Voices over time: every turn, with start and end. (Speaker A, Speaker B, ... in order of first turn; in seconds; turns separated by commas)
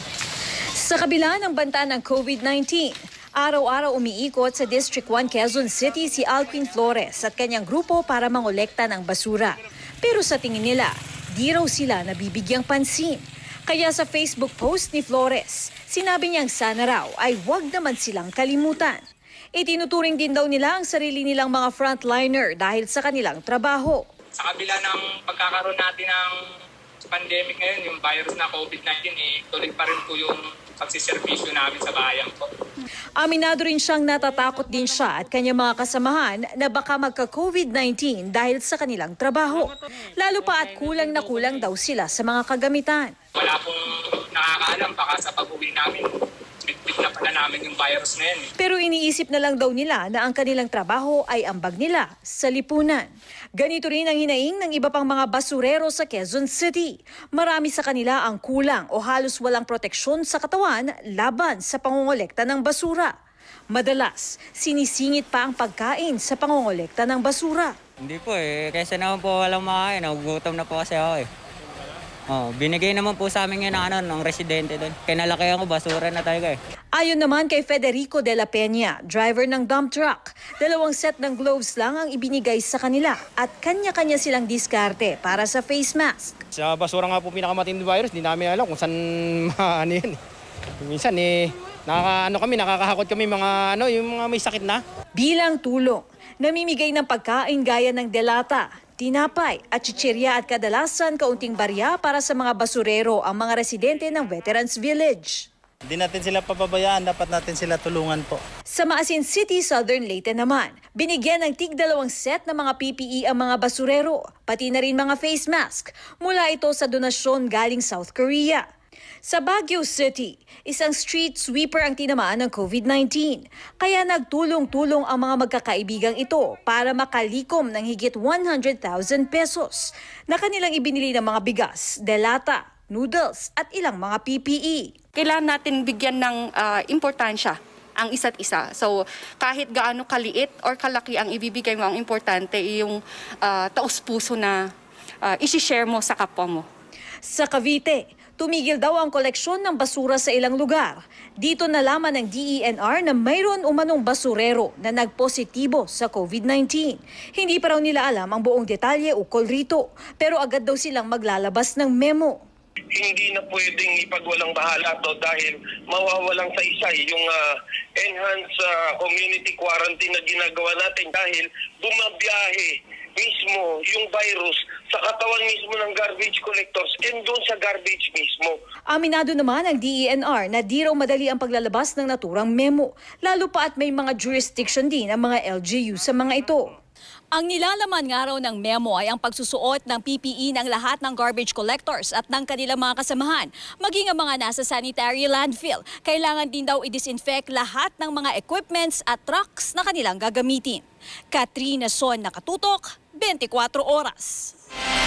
Speaker A: 0.8-19.0, Speaker A: 19.6-24.0, Speaker B: 24.4-26.3, Speaker B: 27.0-32.5, Speaker A: 33.2-43.1, Speaker B: 43.4-46.1, Speaker B: 46.6-48.5, Speaker A: 48.6-63.1, Speaker A: 63.7-67.7, Speaker C: 68.0-71.3, Speaker C: 72.3-76.6, Speaker A: 76.9-86.4, Speaker D: 86.5-90.2, Speaker D: 90.8-94.8, Speaker A: 95.2-105.5, Speaker E: 105.8-108.4, Speaker A: 108.7-118.6, Speaker A: 119.2-134.9, Speaker F: 135.2-144.6, Speaker F: 145.2-146.6, Speaker A: 147.2-162.4, Speaker G: 162.9-178.6, Speaker A: 178.9-186.7, Speaker A: 187.3-204.5